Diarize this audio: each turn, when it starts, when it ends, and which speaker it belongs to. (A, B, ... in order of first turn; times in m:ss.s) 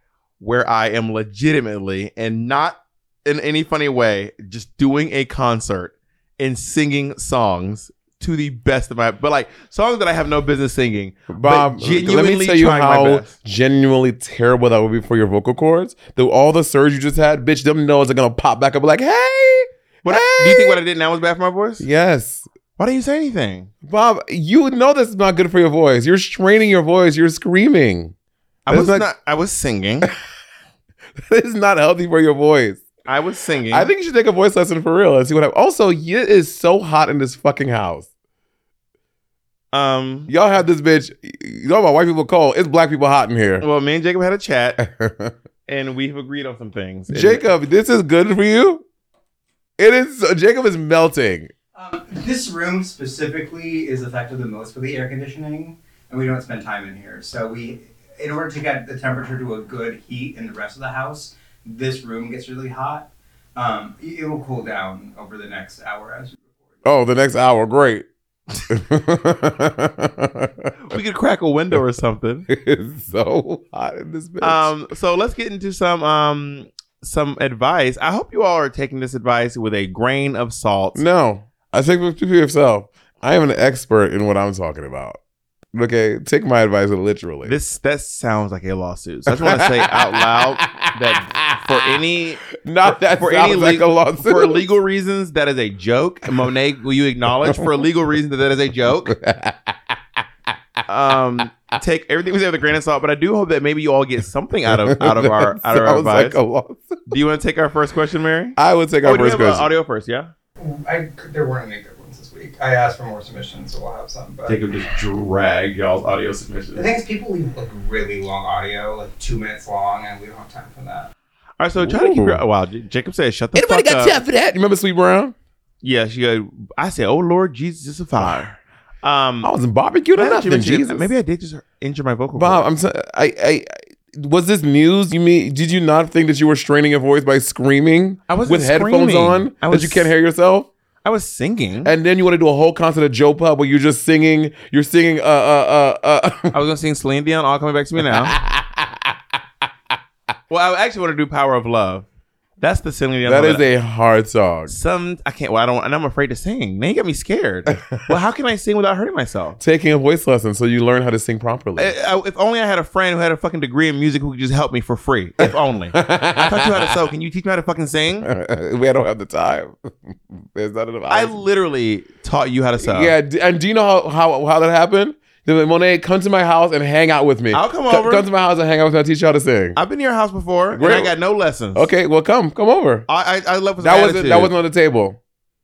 0:00.4-0:13.3 A
0:11.3-0:20.8 B
0:20.0-0:21.8 A
0:21.8-0:22.5 B
0:22.8-0:23.7 A
0:23.8-0:28.1 B
0:28.7-0:30.1 A
0:28.7-0:29.1 B
0:31.2-0:32.9 B
0:33.1-0:33.9 A
0:33.7-0:38.1 B
0:39.7-0:40.3 A
0:40.3-0:43.6 B
0:43.6-0:44.8 A
0:44.8-0:45.3 B
0:45.7-0:47.4 A
0:47.1-0:48.8 B
0:49.8-0:51.5 B
0:51.8-1:06.5 C
1:06.8-1:08.0 B
1:08.7-1:10.7 B
1:10.8-1:12.5 A
1:12.5-1:14.8 B
1:14.4-1:21.0 A
1:21.0-1:25.2 B
1:25.7-1:27.5 B
1:27.4-1:39.1 A
1:29.3-1:34.6 B
1:39.0-1:40.5 B
1:40.9-1:46.4 A
1:44.7-1:47.2 B
1:47.1-1:50.3 A
1:48.6-1:49.7 B
1:50.6-1:55.1 C
1:54.5-1:56.9 A
1:56.7-2:01.1 C
2:01.6-2:04.2 A
2:01.8-2:02.4 B
2:03.5-2:05.4 B
2:05.8-2:09.5 A
2:09.4-2:11.1 B
2:10.2-2:12.6 A
2:12.4-2:20.7 B
2:18.3-2:20.1 A
2:21.0-2:21.9 A
2:21.8-2:26.5 B
2:26.5-2:28.4 A
2:28.1-2:29.1 B
2:30.5-2:32.1 A
2:32.6-2:33.7 A
2:33.2-2:34.8 B
2:34.7-2:39.6 A
2:37.7-2:38.1 B
2:39.6-2:42.0 B
2:41.8-2:48.3 A
2:45.4-2:47.0 B
2:48.2-2:51.4 B
2:51.1-2:53.1 A
2:52.8-2:59.8 B
2:57.5-2:58.2 A
2:59.8-3:01.9 A
3:00.8-3:01.1 B
3:01.8-3:03.1 B
3:03.1-3:04.5 A
3:03.8-3:05.2 B